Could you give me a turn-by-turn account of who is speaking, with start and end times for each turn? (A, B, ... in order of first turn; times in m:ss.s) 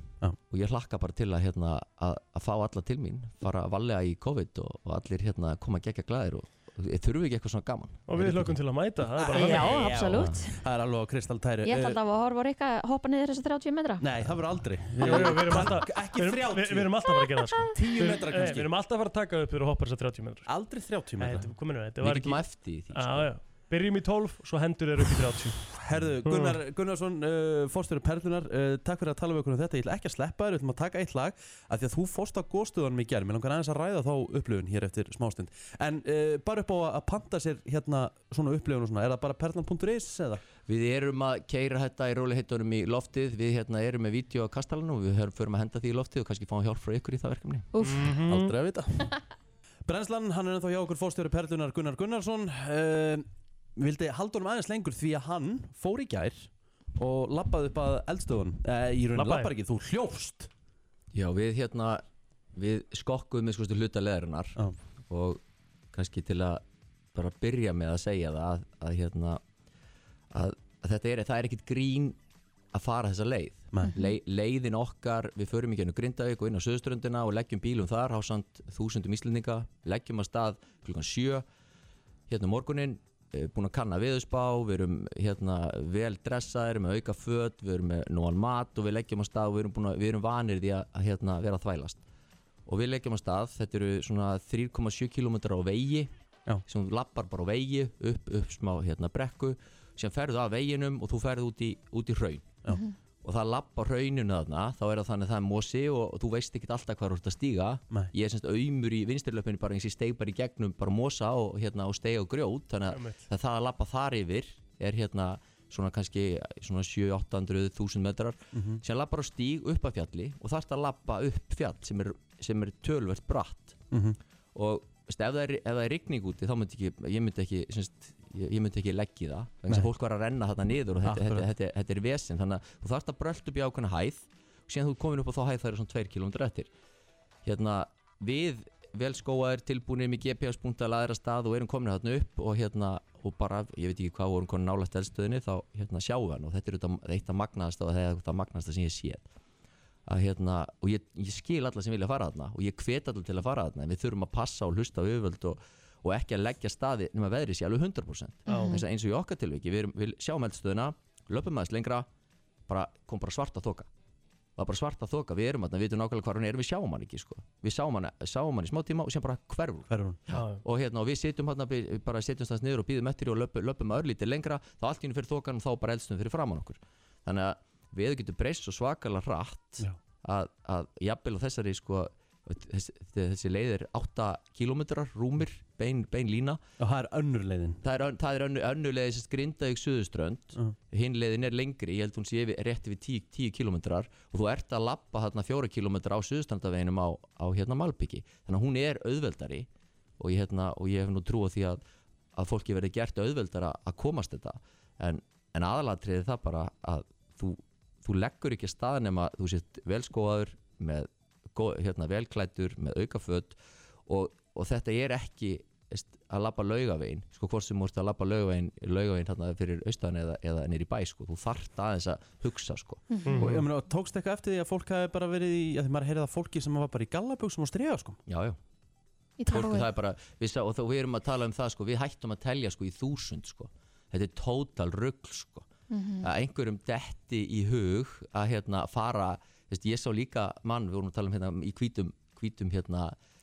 0:00.4-0:08.6 A
0:08.1-0:10.0 B
0:09.3-0:10.6 C
0:09.3-0:12.0 D
0:10.0-0:10.4 A
0:11.6-0:14.0 C
0:14.0-0:16.9 D
0:15.0-0:20.5 B
0:17.7-0:18.7 D
0:20.5-0:21.5 D
0:21.2-0:25.7 B
0:22.0-0:23.3 A
0:25.7-0:40.4 D
0:26.2-0:26.6 B
0:40.6-0:47.7 A
0:47.7-0:48.1 C
0:47.8-0:48.5 B
0:48.3-0:49.1 D
0:49.8-1:00.5 D
0:59.2-0:59.5 B
1:01.1-1:02.0 A
1:02.6-1:05.4 A
1:05.9-1:06.6 A
1:07.1-1:09.4 A
1:10.3-1:12.2 A
1:12.7-1:21.4 A
1:22.3-1:32.0 A
1:32.6-1:36.1 A
1:36.7-1:42.6 A
1:43.2-2:03.8 A
1:52.9-1:53.3 B
1:58.5-1:58.8 D
2:03.9-2:04.2 D
2:04.5-2:16.7 A
2:11.0-2:11.5 D
2:17.4-2:29.3 A
2:30.1-2:42.1 A
2:38.5-2:38.8 B
2:38.5-2:38.8 C
2:42.7-2:43.9 A
2:44.6-2:49.9 A
2:49.9-2:50.4 D
2:50.3-2:50.6 B
2:50.4-3:06.6 A
3:06.8-3:07.8 D
3:07.8-3:19.7 A
3:20.2-3:21.8 A
3:22.4-3:43.1 A
3:43.1-3:43.5 C
3:43.3-3:43.6 B
3:43.4-3:48.2 D
3:48.3-3:48.6 A
3:49.4-3:49.9 C
3:49.5-3:55.7 A
3:55.9-3:56.3 C
3:56.2-4:03.1 A